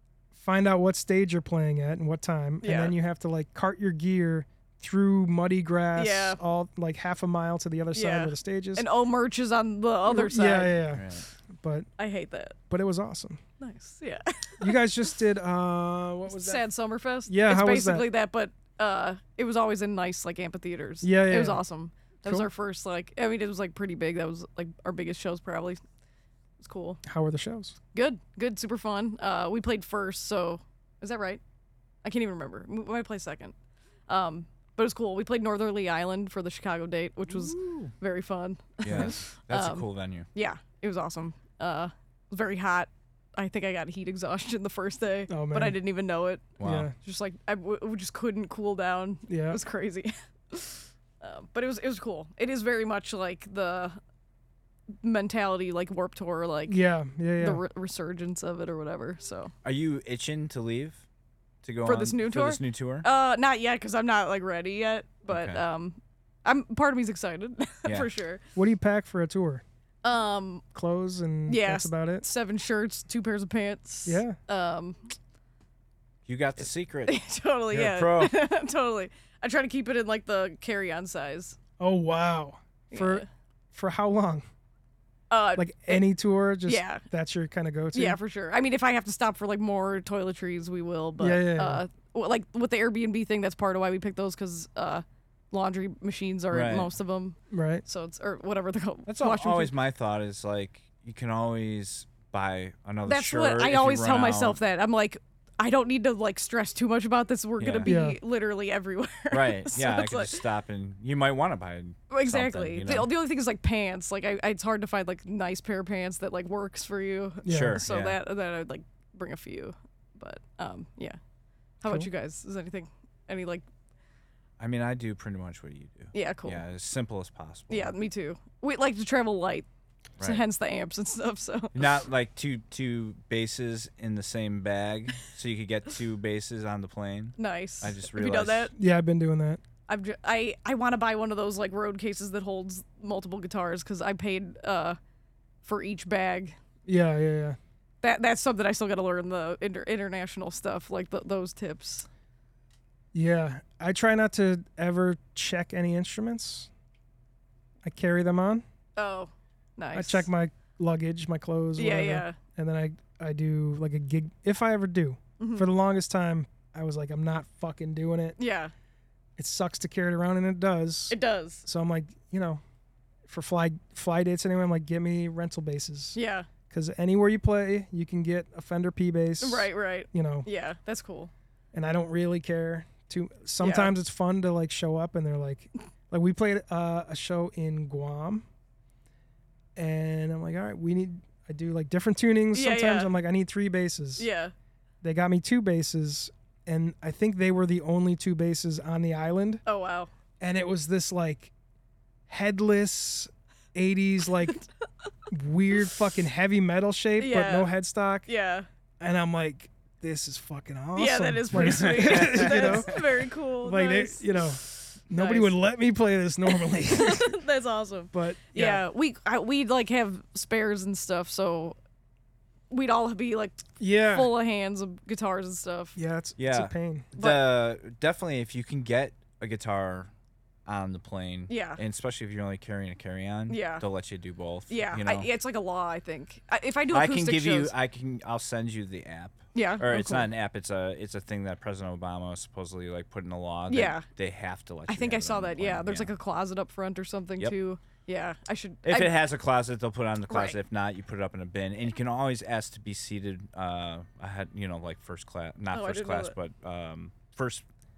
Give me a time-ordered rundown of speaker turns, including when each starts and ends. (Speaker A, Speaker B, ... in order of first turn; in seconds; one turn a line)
Speaker A: 0.3-8.9
Speaker B: 2.6-3.0
Speaker B: 6.0-6.4
Speaker B: 7.9-10.9
Speaker A: 10.1-11.1
Speaker C: 10.9-11.3
Speaker A: 11.6-11.9
Speaker B: 12.0-12.6
Speaker A: 12.7-13.4
Speaker B: 13.6-14.8
Speaker A: 14.6-16.6
Speaker B: 16.3-25.8
Speaker A: 17.3-18.1
Speaker A: 21.0-21.6
Speaker B: 26.6-27.0
Speaker A: 27.1-27.8
Speaker B: 27.9-31.4
Speaker B: 32.0-33.5
Speaker B: 34.1-54.0
Speaker C: 37.3-37.9
Speaker C: 38.8-40.3
Speaker A: 45.3-45.8
Speaker C: 46.6-46.9
Speaker A: 46.6-47.0
Speaker A: 49.3-49.6
Speaker B: 55.0-56.8
Speaker A: 56.7-57.6
Speaker B: 57.4-59.5
Speaker C: 59.6-61.0
Speaker C: 61.6-63.1
Speaker B: 61.9-68.4
Speaker C: 65.3-65.6
Speaker A: 68.6-69.6
Speaker B: 70.0-70.6
Speaker A: 70.7-72.2
Speaker B: 71.5-75.1
Speaker A: 74.1-74.4
Speaker C: 76.3-77.2
Speaker B: 77.1-81.6
Speaker C: 77.7-78.3
Speaker A: 81.8-84.5
Speaker B: 82.9-83.2
Speaker B: 85.3-86.0
Speaker A: 85.6-88.2
Speaker B: 86.7-87.0
Speaker B: 87.9-99.7
Speaker A: 91.2-91.8
Speaker C: 96.5-96.9
Speaker A: 97.5-97.8
Speaker C: 99.1-104.6
Speaker B: 103.1-110.4
Speaker C: 107.6-107.9
Speaker A: 107.9-108.2
Speaker C: 109.3-113.1
Speaker B: 112.1-121.2
Speaker A: 117.5-117.8
Speaker C: 117.5-118.2
Speaker B: 121.8-123.6
Speaker C: 124.6-127.9
Speaker B: 126.1-126.6
Speaker B: 127.7-129.7
Speaker B: 130.2-131.8
Speaker C: 131.7-138.7
Speaker B: 137.4-138.7
Speaker A: 138.8-139.6
Speaker B: 139.9-145.0
Speaker B: 145.6-146.6
Speaker A: 146.9-147.6
Speaker B: 148.0-152.1
Speaker A: 153.1-156.7
Speaker A: 157.8-158.6
Speaker B: 159.0-160.3
Speaker A: 159.9-168.4
Speaker B: 161.8-162.4
Speaker B: 165.4-165.7
Speaker B: 168.4-168.7
Speaker A: 169.4-172.6
Speaker B: 171.1-171.6
Speaker A: 173.3-176.2
Speaker B: 176.2-176.5
Speaker A: 176.7-180.5
Speaker B: 179.4-181.3
Speaker A: 181.7-188.4
Speaker B: 183.6-183.9
Speaker A: 189.8-194.3
Speaker B: 192.5-193.1
Speaker B: 194.2-194.5
Speaker A: 195.0-199.6
Speaker B: 199.7-200.1
Speaker A: 200.4-201.5
Speaker A: 202.3-204.6
Speaker A: 205.3-208.3
Speaker B: 207.2-207.7
Speaker B: 208.3-208.7
Speaker A: 209.0-213.0
Speaker B: 211.0-215.6
Speaker C: 211.5-213.0
Speaker A: 213.6-217.3
Speaker B: 216.5-221.8
Speaker A: 218.1-218.8
Speaker B: 222.7-226.0
Speaker A: 223.8-224.3
Speaker A: 226.0-227.1
Speaker C: 226.4-230.1
Speaker B: 227.2-227.4
Speaker C: 230.7-235.3
Speaker B: 231.5-231.8
Speaker B: 233.5-233.8
Speaker B: 234.7-237.7
Speaker C: 236.9-246.1
Speaker B: 239.5-240.3
Speaker B: 243.7-244.1
Speaker B: 244.9-249.2
Speaker C: 248.8-257.6
Speaker B: 250.3-250.6
Speaker B: 255.7-256.3